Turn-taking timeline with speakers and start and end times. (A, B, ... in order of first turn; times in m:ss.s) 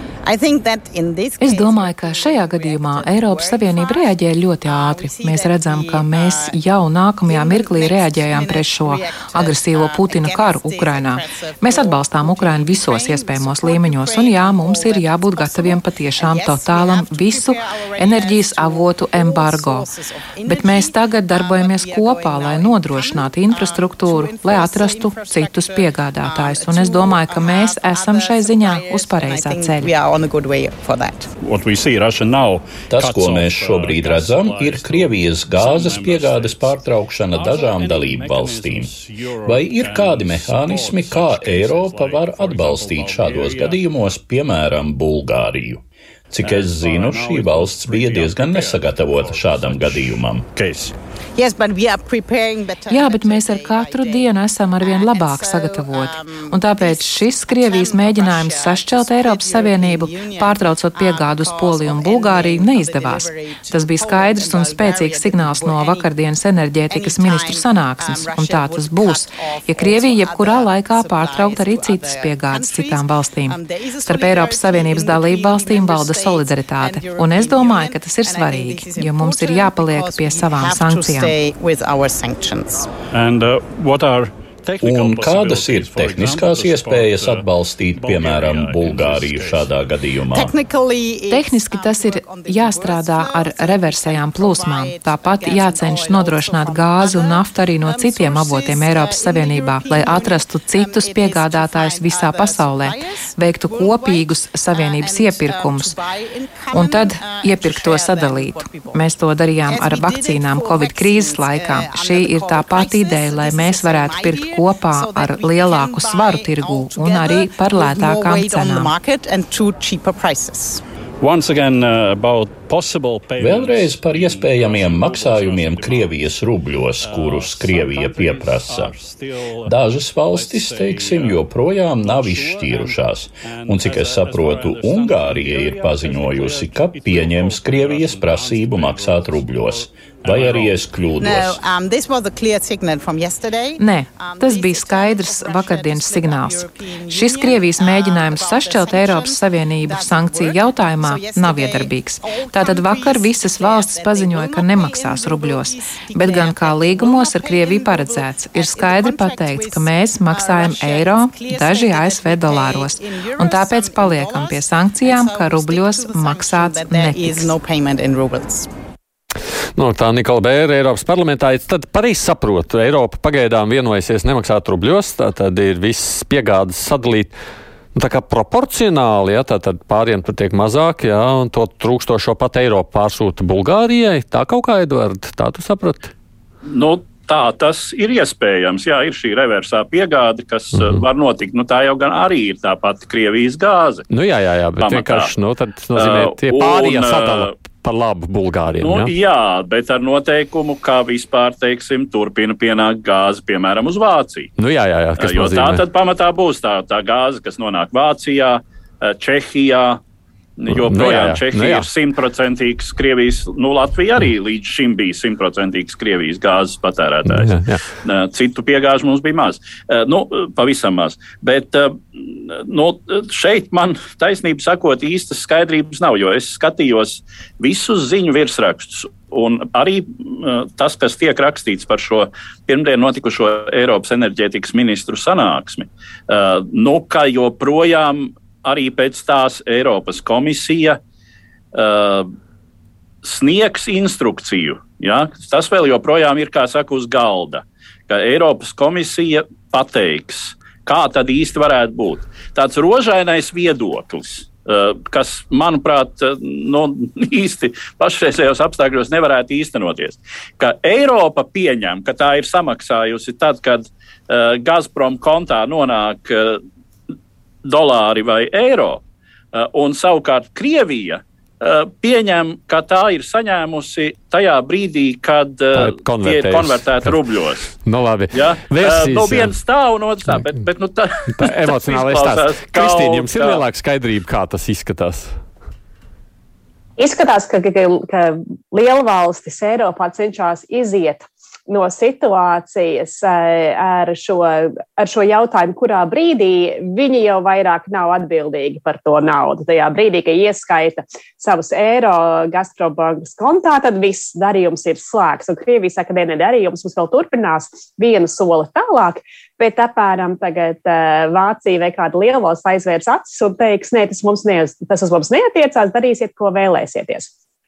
0:00.2-0:06.6 A
0:01.4-0:19.9 B
0:07.2-0:31.3 A
0:20.4-0:29.9 B
0:31.4-0:43.8 C
0:32.9-0:50.5 D
0:46.4-0:51.0 C
0:51.4-1:06.1 A
0:52.9-1:21.4 B
1:06.9-1:22.9 A
1:23.1-1:29.7 C
1:24.8-1:30.5 D
1:30.3-1:49.1 A
1:31.3-1:46.0 B
1:46.7-1:58.9 B
1:49.6-2:00.8 A
2:01.2-2:06.2 C
2:03.4-2:09.0 D
2:07.0-2:09.8 C
2:09.6-2:21.6 D
2:10.3-2:11.4 C
2:12.0-2:20.8 C
2:21.2-2:48.7 A
2:23.8-2:47.5 B
2:49.8-2:57.4 E
2:57.9-3:06.1 E
3:06.6-3:14.1 C
3:10.8-3:11.0 E
3:14.1-3:19.1 E
3:14.8-3:15.3 C
3:15.9-3:17.5 C
3:18.8-3:24.5 C
3:24.6-3:25.8 E
3:25.2-3:30.0 C
3:30.6-4:01.0 C
3:30.7-3:31.9 E
3:37.3-3:37.8 E
4:01.7-4:02.4 C
4:03.2-4:26.6 C
4:27.6-4:29.0 C
4:29.5-4:37.7 C
4:35.7-4:37.2 E
4:37.7-4:39.5 E
4:38.3-4:43.6 C
4:41.3-4:45.4 E
4:47.0-5:17.3 F